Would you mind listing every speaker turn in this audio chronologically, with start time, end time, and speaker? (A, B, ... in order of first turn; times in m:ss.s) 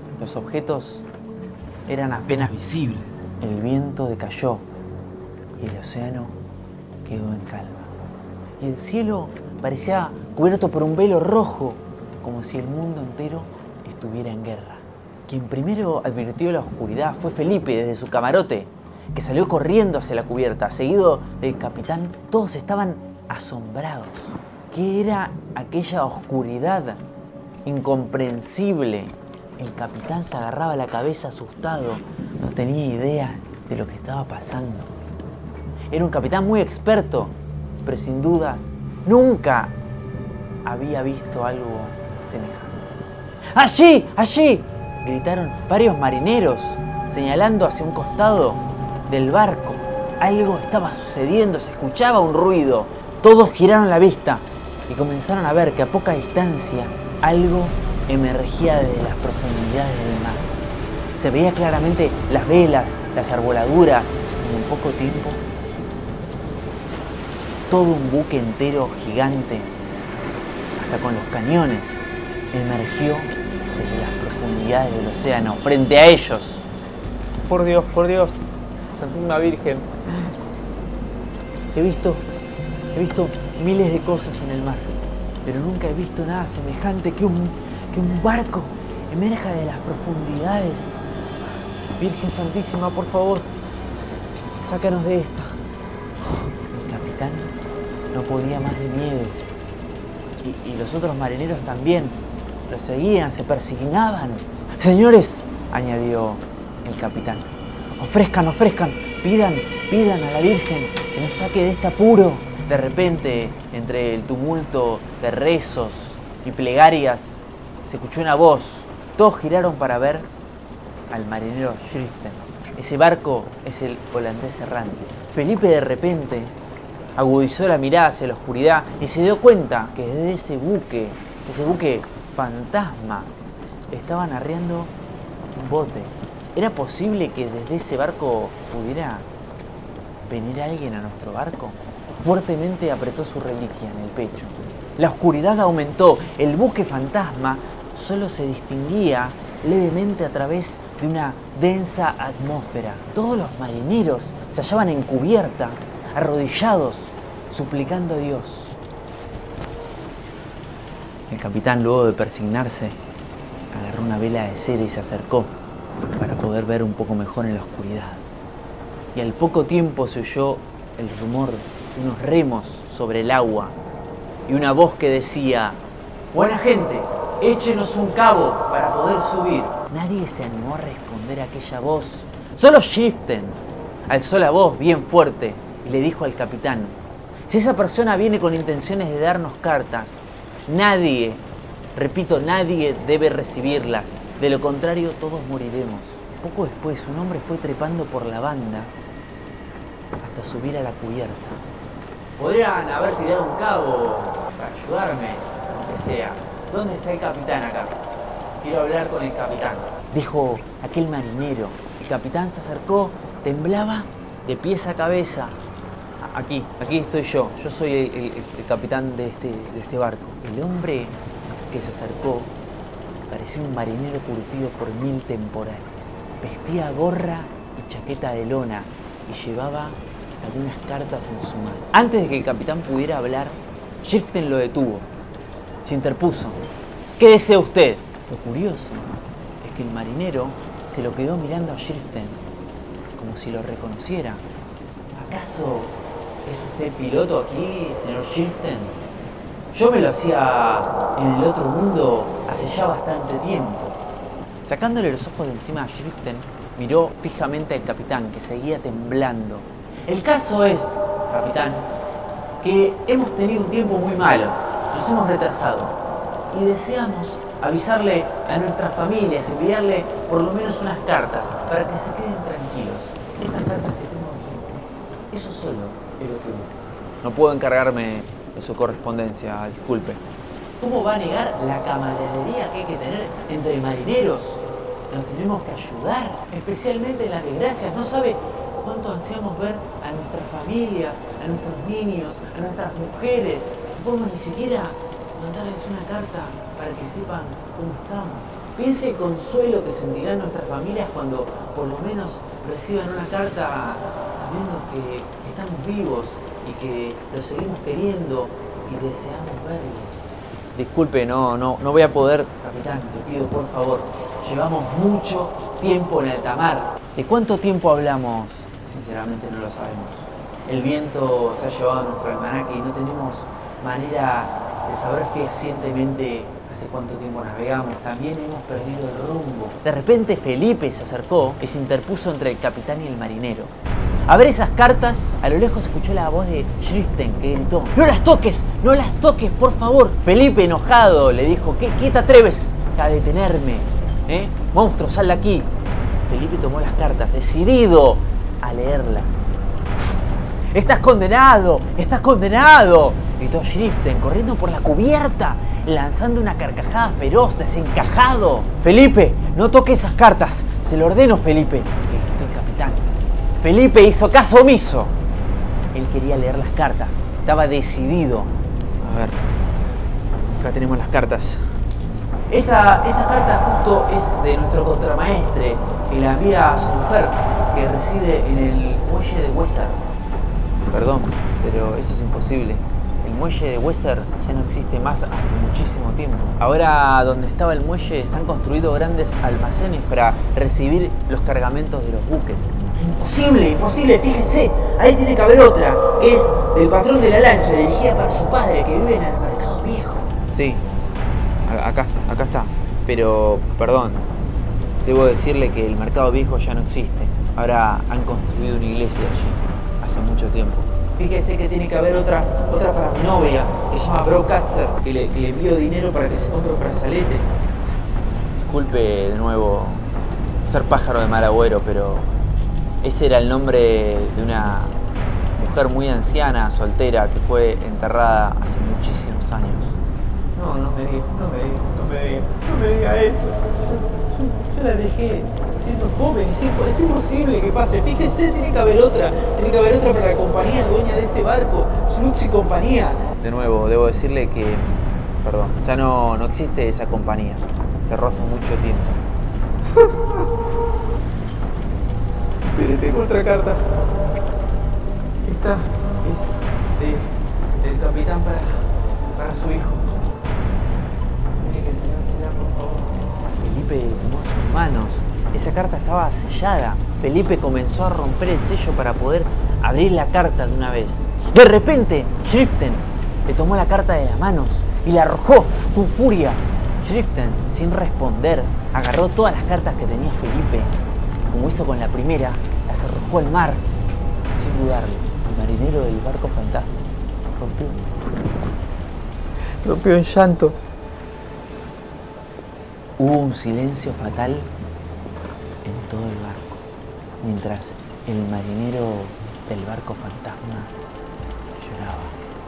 0:00.2-0:01.0 A
0:01.9-0:04.6 A
0:05.6-0:06.4 A
0:07.0-0:07.9 A
0:08.6-0:27.0 A
0:27.6-0:34.9 A
0:35.9-0:39.7 A
0:40.6-0:42.8 A
0:43.5-1:00.5 A
1:01.2-1:05.4 A
1:07.7-1:09.7 A
1:10.8-1:16.6 A
1:17.5-1:18.4 A
1:18.9-1:20.3 A
1:21.7-1:22.3 A
1:22.9-1:24.9 A
1:25.4-1:30.9 A
1:32.0-1:33.5 A
1:34.6-1:35.6 A
1:36.7-1:37.5 A
1:38.1-1:39.4 A
1:40.4-1:42.2 A
1:42.7-2:00.3 A
2:01.1-2:06.6 A
2:07.2-2:13.3 A
2:13.9-2:14.9 A
2:15.5-2:19.3 A
2:20.3-2:38.8 A
2:41.3-2:43.0 A
2:43.7-2:45.5 A
2:46.2-2:48.2 A
2:49.1-2:53.8 A
2:54.5-2:55.8 A
2:56.3-3:11.4 A
3:12.0-3:18.9 A
3:20.2-3:21.6 A
3:22.4-3:28.0 A
3:28.6-3:35.6 A
3:36.2-3:42.5 A
3:43.3-3:55.1 A
3:55.8-3:56.6 A
3:57.2-3:59.1 A
3:59.6-4:02.4 A
4:03.2-4:04.4 A
4:05.1-4:05.9 A
4:06.4-4:09.0 A
4:09.7-4:14.0 A
4:14.6-4:21.9 A
4:22.6-4:26.0 A
4:26.5-4:34.8 A
4:35.3-4:40.2 A
4:40.8-5:33.7 A
5:34.3-5:45.7 A
5:46.3-5:49.5 A
5:50.7-6:05.1 A
6:05.9-6:09.4 A
6:10.6-6:11.6 A
6:12.5-6:20.1 A
6:20.9-6:40.8 A
6:41.6-6:44.3 A
6:45.0-6:57.5 A
6:58.6-7:00.1 A
7:00.7-7:02.3 A
7:03.0-7:05.0 A
7:05.6-7:10.0 A
7:10.6-7:29.2 A
7:29.9-7:30.5 A
7:32.7-7:33.8 A
7:35.4-7:40.1 A
7:41.6-8:00.9 A
8:01.4-8:03.8 A
8:04.5-8:06.9 A
8:07.6-8:08.0 A
8:09.8-8:10.8 A
8:13.2-8:14.7 A
8:15.8-8:16.8 A
8:17.4-8:20.9 A
8:21.8-8:22.4 A